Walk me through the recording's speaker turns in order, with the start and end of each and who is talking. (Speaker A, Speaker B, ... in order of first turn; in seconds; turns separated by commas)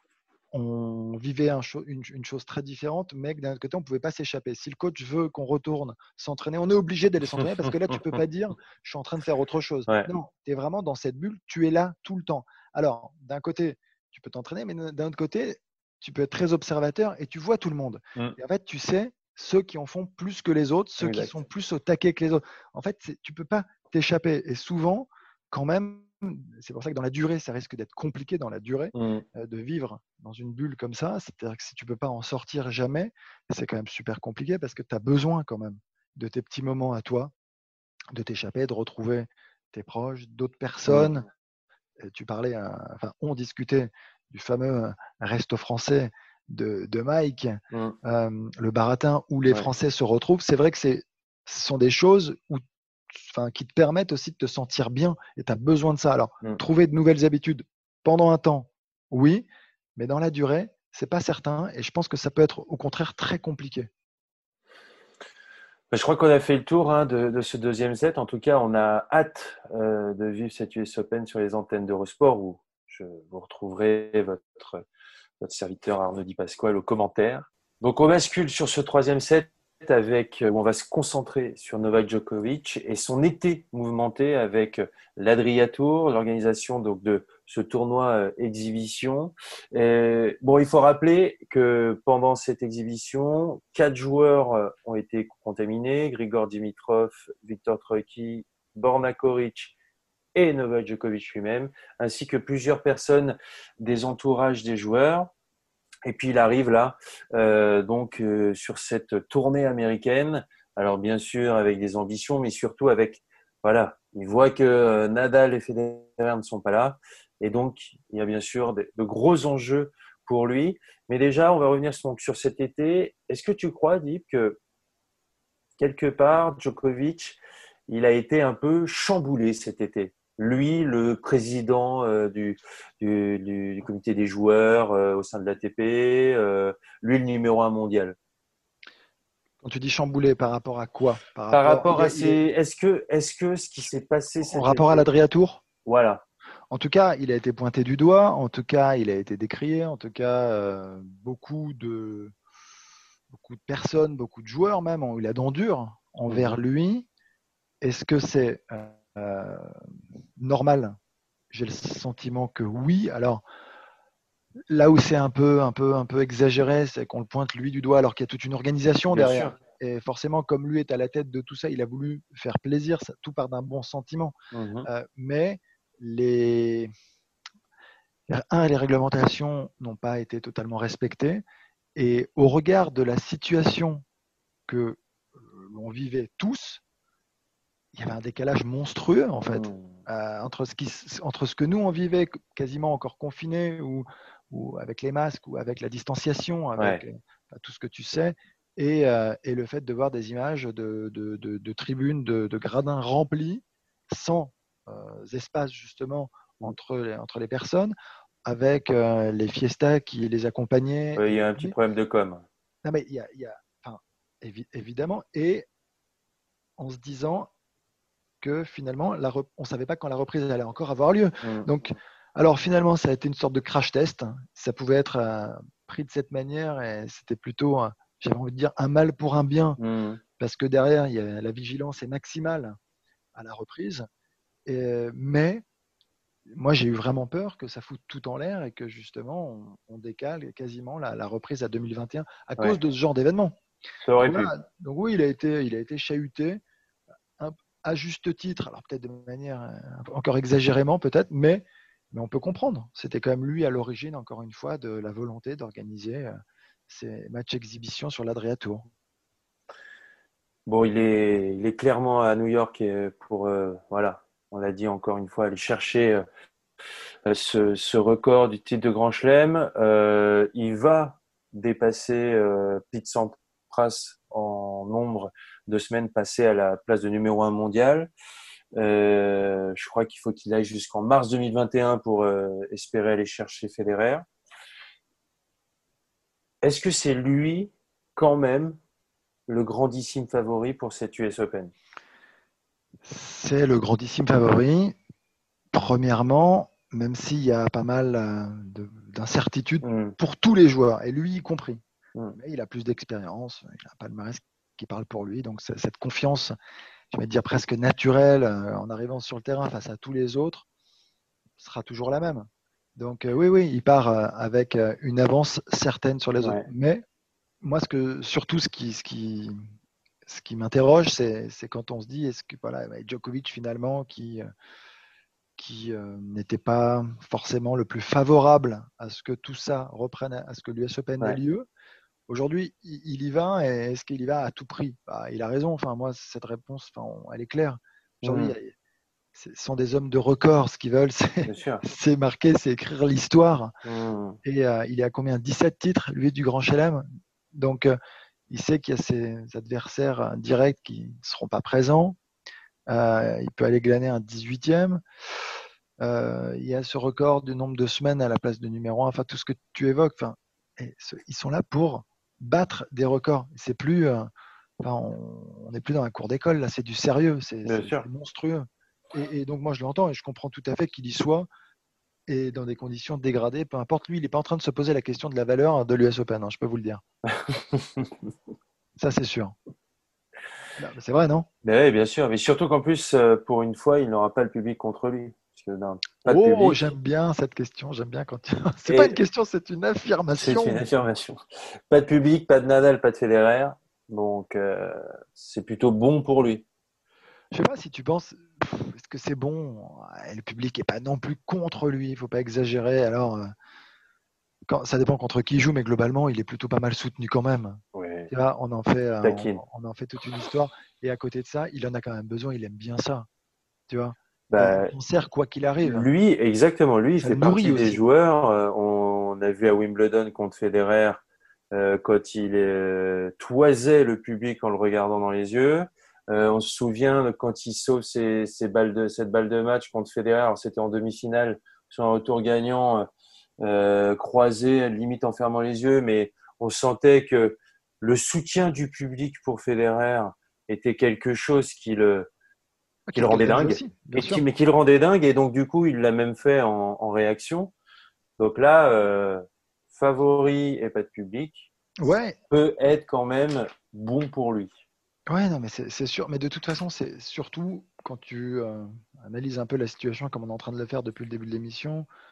Speaker A: 0.5-37.3, Speaker B: 21.0-21.3, Speaker B: 28.9-29.2, Speaker A: 38.1-41.3, Speaker B: 40.9-41.1, Speaker A: 42.0-63.9, Speaker B: 65.9-74.8, Speaker B: 75.4-99.7, Speaker B: 100.3-105.3, Speaker B: 106.0-124.6, Speaker B: 125.8-138.2, Speaker A: 139.6-142.4, Speaker B: 141.5-145.1, Speaker A: 144.4-145.6, Speaker B: 145.8-146.2, Speaker A: 146.7-152.3, Speaker A: 153.3-157.1, Speaker B: 156.3-156.6, Speaker A: 157.8-159.8, Speaker A: 160.4-161.0, Speaker A: 161.5-163.4, Speaker A: 164.7-176.9, Speaker B: 169.1-169.5, Speaker B: 174.5-174.9, Speaker A: 178.3-181.4, Speaker A: 182.0-184.0, Speaker A: 184.7-186.8, Speaker A: 187.9-207.9, Speaker B: 189.5-190.0, Speaker B: 196.8-197.0, Speaker A: 208.5-211.8, Speaker B: 211.2-212.4, Speaker A: 212.8-215.7, Speaker A: 216.8-217.5, Speaker A: 218.4-229.8, Speaker B: 221.4-221.7, Speaker B: 229.8-230.2, Speaker A: 230.4-232.8, Speaker A: 233.3-234.1, Speaker A: 234.7-235.7, Speaker A: 236.5-243.6, Speaker B: 244.1-244.5, Speaker A: 244.2-246.6, Speaker A: 247.4-256.4, Speaker A: 256.9-258.9, Speaker B: 260.7-266.2, Speaker B: 267.3-278.1, Speaker B: 278.8-284.3, Speaker B: 286.6-288.8, Speaker B: 289.5-291.7, Speaker A: 293.0-295.0, Speaker A: 295.7-301.8, Speaker B: 299.8-300.1, Speaker A: 302.4-306.6, Speaker A: 307.1-310.6, Speaker A: 311.6-317.0, Speaker A: 317.6-319.7, Speaker A: 320.3-324.5, Speaker A: 325.6-331.7, Speaker A: 332.3-338.7, Speaker B: 338.2-338.6, Speaker A: 339.3-343.7, Speaker B: 341.5-341.9, Speaker B: 343.9-344.4, Speaker A: 344.4-348.0, Speaker A: 348.5-352.2, Speaker A: 352.9-355.0, Speaker A: 356.0-371.5, Speaker B: 367.6-368.1, Speaker A: 372.3-377.0, Speaker B: 377.3-378.1, Speaker A: 379.0-379.6, Speaker A: 380.8-381.5, Speaker B: 381.6-386.9, Speaker A: 386.3-390.9, Speaker B: 388.9-389.2, Speaker B: 390.4-396.6, Speaker A: 397.5-403.5, Speaker A: 404.7-413.3, Speaker B: 407.9-408.3, Speaker B: 409.2-409.6, Speaker A: 413.9-416.1, Speaker B: 414.5-414.9, Speaker B: 415.8-421.2, Speaker A: 417.2-418.0, Speaker B: 421.7-433.1, Speaker B: 433.6-442.3, Speaker A: 443.1-444.4, Speaker B: 443.2-447.7, Speaker B: 448.4-451.7, Speaker A: 452.0-452.4, Speaker B: 452.5-454.7, Speaker A: 455.3-462.1